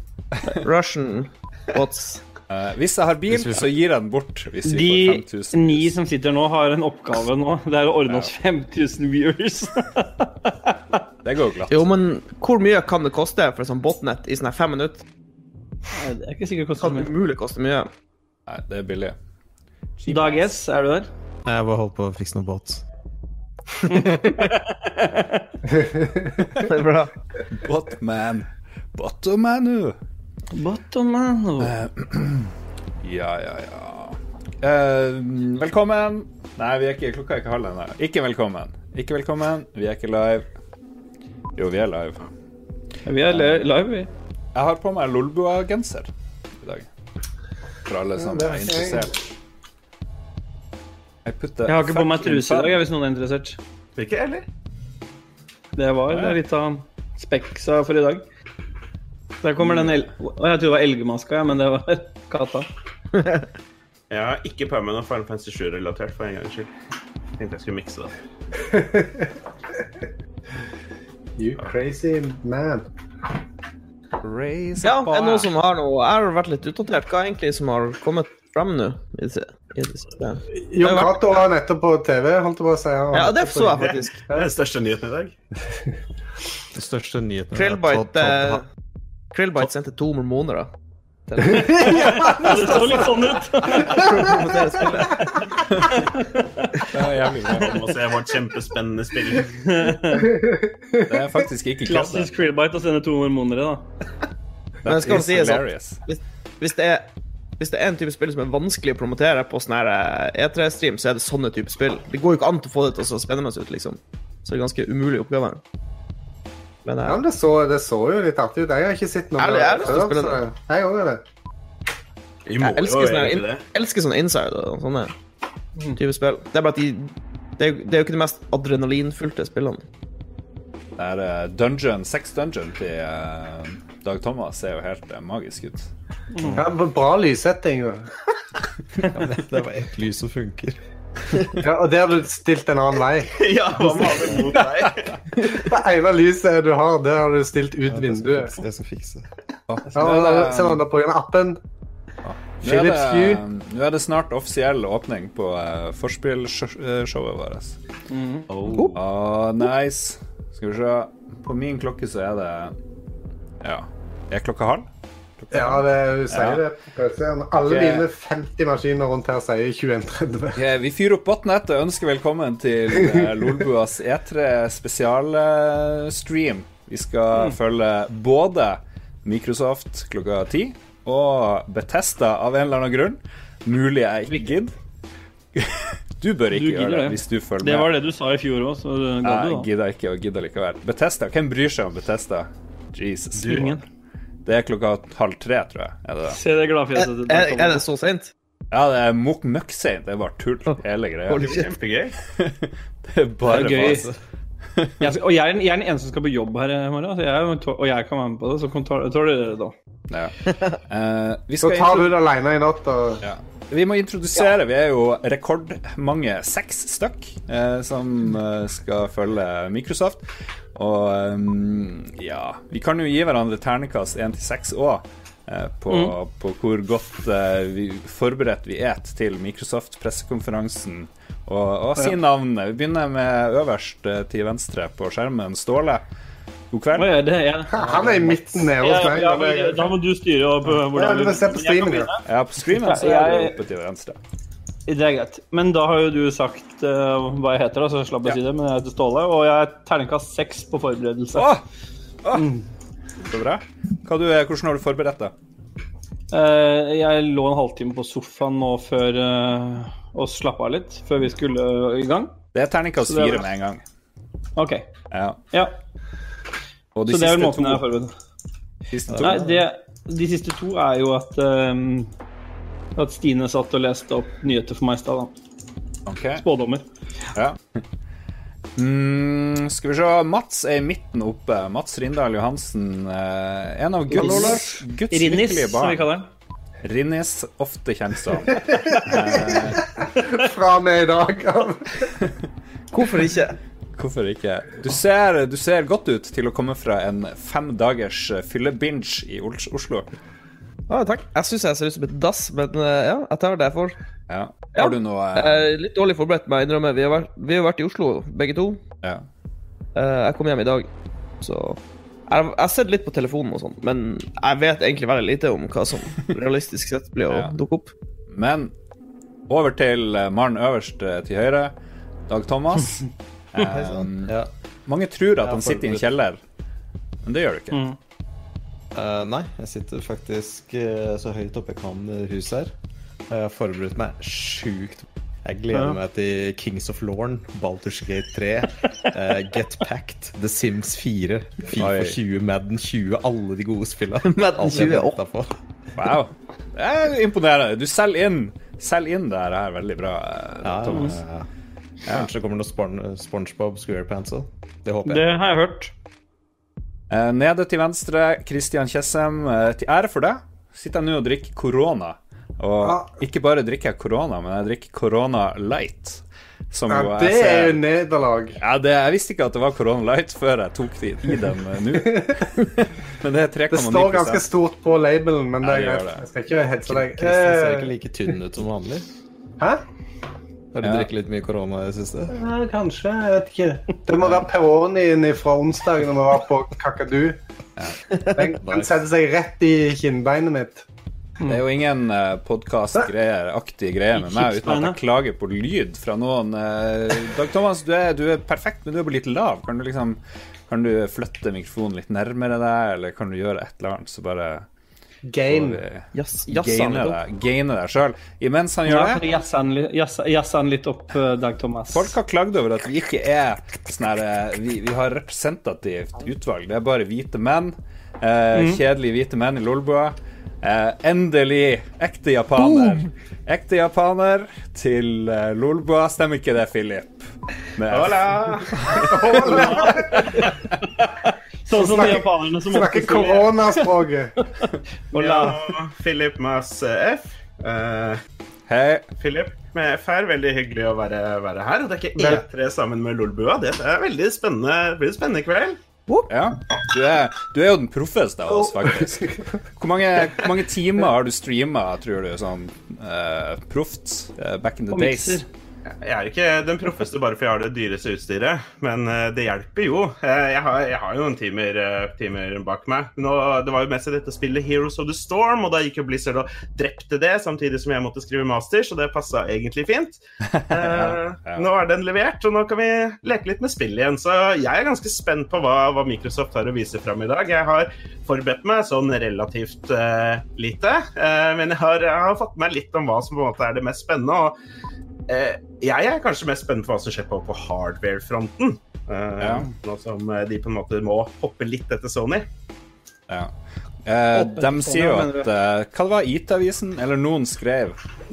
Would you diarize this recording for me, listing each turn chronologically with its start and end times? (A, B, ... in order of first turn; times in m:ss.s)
0:00.6-0:02.2 A
0:02.5-0:05.9 B
0:04.6-0:11.0 C
0:11.2-0:11.9 B
0:11.7-0:15.0 A
0:15.9-0:17.1 C
0:16.8-0:17.9 A
0:18.5-0:19.2 B
0:20.0-0:20.5 B
0:20.1-0:21.1 C
0:21.4-0:22.8 D
0:23.9-0:25.4 C
0:25.8-0:26.3 E
0:26.6-0:27.1 A
0:27.6-0:30.0 B
0:30.5-0:31.7 C
0:31.6-0:32.5 B
0:33.0-0:40.5 B
0:41.6-0:42.2 B
0:43.0-0:44.1 C
0:43.3-0:43.7 B
0:44.5-0:46.1 B
0:46.6-0:46.9 B
0:47.9-0:49.2 B
0:48.2-0:49.1 E
0:51.2-0:52.8 B
0:51.6-0:53.6 C
0:54.0-0:54.4 F
0:55.8-0:58.2 C
0:56.1-0:56.4 B
0:59.4-1:02.7 C
1:04.1-1:06.7 F
1:07.4-1:08.1 F
1:08.7-1:09.3 E
1:11.4-1:12.8 E
1:14.2-1:15.5 B
1:14.8-1:21.2 A
1:20.7-1:24.5 E
1:23.1-1:24.2 A
1:23.8-1:25.3 F
1:26.7-1:28.6 D
1:27.5-1:28.6 A
1:29.3-1:30.7 A
1:31.3-1:35.2 A
1:31.5-1:32.9 E
1:31.8-1:34.0 C
1:36.2-1:36.6 C
1:36.9-1:37.7 B
1:37.6-1:39.5 F
1:39.6-1:40.3 C
1:40.4-1:40.6 E
1:41.1-1:42.3 B
1:41.8-1:43.8 C
1:44.8-1:46.0 B
1:44.8-1:55.6 A
1:56.8-1:57.2 A
1:57.0-2:01.2 E
1:59.4-2:00.4 A
2:02.5-2:03.7 F
2:02.6-2:05.1 A
2:06.0-2:09.8 A
2:11.0-2:15.9 B
2:16.4-2:16.6 C
2:16.6-2:18.1 E
2:19.1-2:20.8 D
2:21.6-2:23.3 E
2:23.4-2:25.1 F
2:25.5-2:28.6 E
2:27.9-2:29.2 D
2:29.7-2:30.8 B
2:29.9-2:31.6 E
2:32.2-2:37.8 B
2:32.6-2:33.4 E
2:38.1-2:38.4 C
2:38.5-2:38.9 F
2:38.9-2:42.7 B
2:43.6-2:44.9 B
2:45.4-2:46.6 B
2:45.5-2:50.6 E
2:47.6-2:48.0 B
2:50.6-3:04.7 B
2:53.0-2:53.5 E
3:06.2-3:07.9 B
3:06.5-3:09.7 C
3:09.2-3:13.8 B
3:13.4-3:13.8 C
3:14.4-3:16.4 B
3:16.3-3:17.8 C
3:17.0-3:18.3 A
3:18.7-3:21.6 B
3:21.3-3:21.6 A
3:21.3-3:22.1 F
3:22.4-3:24.1 B
3:23.5-3:24.0 C
3:23.6-3:24.1 D
3:25.0-3:29.7 C
3:30.9-3:32.1 B
3:31.6-3:33.2 E
3:33.2-3:40.2 B
3:40.7-3:56.0 B
3:45.9-3:46.1 C
3:56.7-3:57.1 B
3:56.9-4:03.6 C
3:57.7-3:59.9 E
4:00.9-4:02.1 E
4:02.2-4:04.2 B
4:04.9-4:11.5 C
4:11.3-4:11.6 B
4:12.2-4:12.5 B
4:12.3-4:12.6 C
4:13.3-4:15.3 B
4:16.3-4:22.4 C
4:22.5-4:23.8 B
4:23.0-4:23.5 C
4:24.6-4:24.9 C
4:25.1-4:25.4 B
4:27.0-4:27.8 B
4:27.1-4:28.1 C
4:28.9-4:29.5 B
4:29.1-4:29.6 D
4:29.2-4:32.1 C
4:33.0-4:35.3 C
4:36.0-4:36.4 B
4:36.4-4:36.8 C
4:38.8-4:46.1 B
4:44.1-4:46.3 C
4:44.2-4:44.5 E
4:46.8-4:49.8 B
4:48.6-4:52.0 E
4:52.9-4:53.6 A
4:54.0-5:00.1 B
5:00.9-5:04.0 A
5:04.3-5:05.7 B
5:04.7-5:08.8 A
5:09.9-5:10.9 A
5:11.4-5:17.9 A
5:17.3-5:17.6 B
5:18.3-5:18.7 B
5:19.5-5:21.7 B
5:22.3-5:23.0 B
5:23.5-5:26.4 B
5:23.7-5:24.5 D
5:25.4-5:26.0 D
5:27.2-5:27.8 B
5:27.7-5:28.0 C
5:28.9-5:32.7 D
5:33.3-5:45.5 D
5:41.8-5:42.2 B
5:44.2-5:45.2 A
5:46.0-5:51.2 B
5:50.6-5:51.4 D
5:52.1-5:55.3 D
5:55.1-5:55.9 C
5:57.1-6:07.8 B
6:02.8-6:03.1 E
6:06.9-6:08.6 E
6:08.6-6:14.4 B
6:12.0-6:12.3 E
6:13.7-6:17.9 E
6:15.6-6:16.2 B
6:16.8-6:19.0 D
6:20.7-6:22.3 D
6:20.8-6:21.1 B
6:22.3-6:27.4 E
6:28.3-6:30.8 E
6:28.6-6:28.9 D
6:31.5-6:44.6 B
6:34.2-6:35.0 C
6:45.2-6:45.8 E
6:45.5-6:49.2 B
6:46.1-6:47.2 A
6:48.8-6:52.1 C
6:51.9-7:09.6 B
6:58.5-6:58.8 C
7:07.9-7:08.8 F
7:09.1-7:10.4 E
7:11.0-7:13.5 C
7:11.7-7:14.3 E
7:15.1-7:15.5 C
7:15.1-7:18.2 F
7:18.7-7:19.1 B
7:19.2-7:25.8 F
7:22.2-7:22.4 E
7:26.3-7:35.4 B
7:34.9-7:35.4 C
7:35.9-8:04.5 F
7:50.5-7:51.7 B
8:05.3-8:12.5 F
8:09.4-8:09.7 B
8:14.0-8:18.0 B
8:14.3-8:15.5 C